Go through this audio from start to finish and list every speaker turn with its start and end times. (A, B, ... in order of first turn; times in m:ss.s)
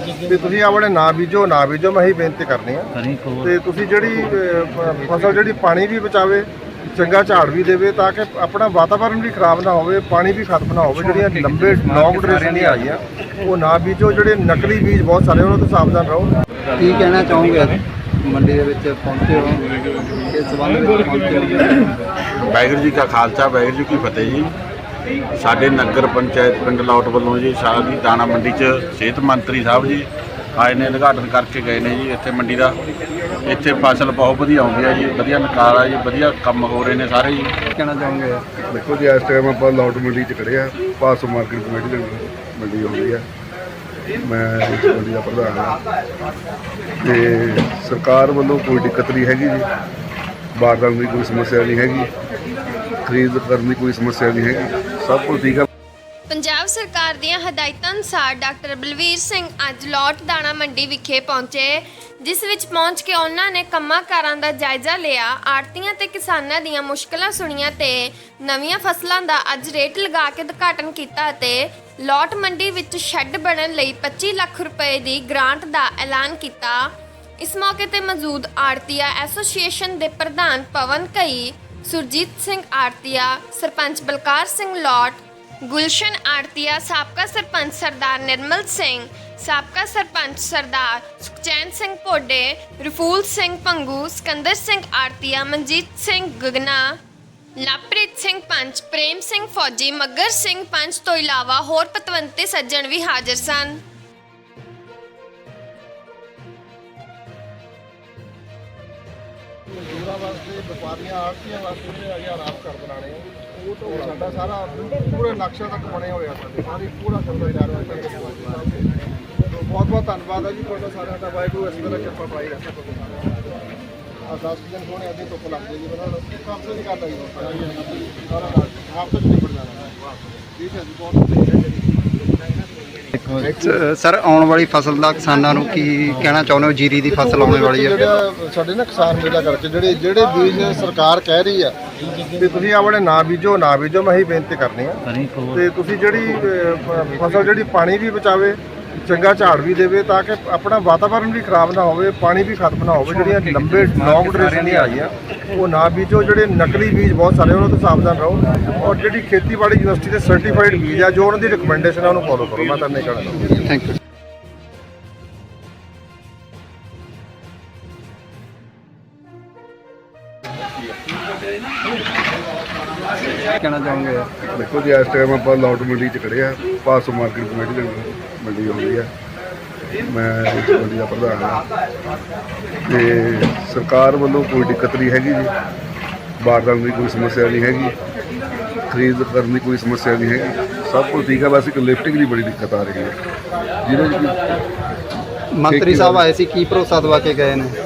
0:00.2-0:16.3 A
0:10.9-0:12.8 B
0:16.8-0:19.7 B
0:20.2-0:22.0 B
0:22.4-0:24.5 C
0:25.4-0:32.8 C
0:33.4-0:37.5 C
0:37.8-0:38.4 B
0:38.7-0:43.3 D
0:44.2-0:45.8 D
0:47.0-0:49.7 D
0:50.6-0:52.1 D
0:53.0-0:55.7 D
0:56.3-1:16.9 E
1:17.4-1:37.0 E
1:37.6-1:43.8 E
1:49.7-1:58.9 A
1:59.5-2:03.3 A
2:04.3-2:11.6 A
2:13.2-2:18.1 B
2:17.1-2:21.8 A
2:22.3-2:43.6 A
2:33.0-2:35.0 B
2:43.7-2:44.0 B
2:53.6-2:54.3 B
2:54.5-2:59.1 D
3:00.1-3:01.6 D
3:02.9-3:05.5 D
3:06.4-3:08.0 D
3:08.9-3:13.2 D
3:13.8-3:14.4 D
3:15.5-3:17.8 B
3:15.7-3:16.2 D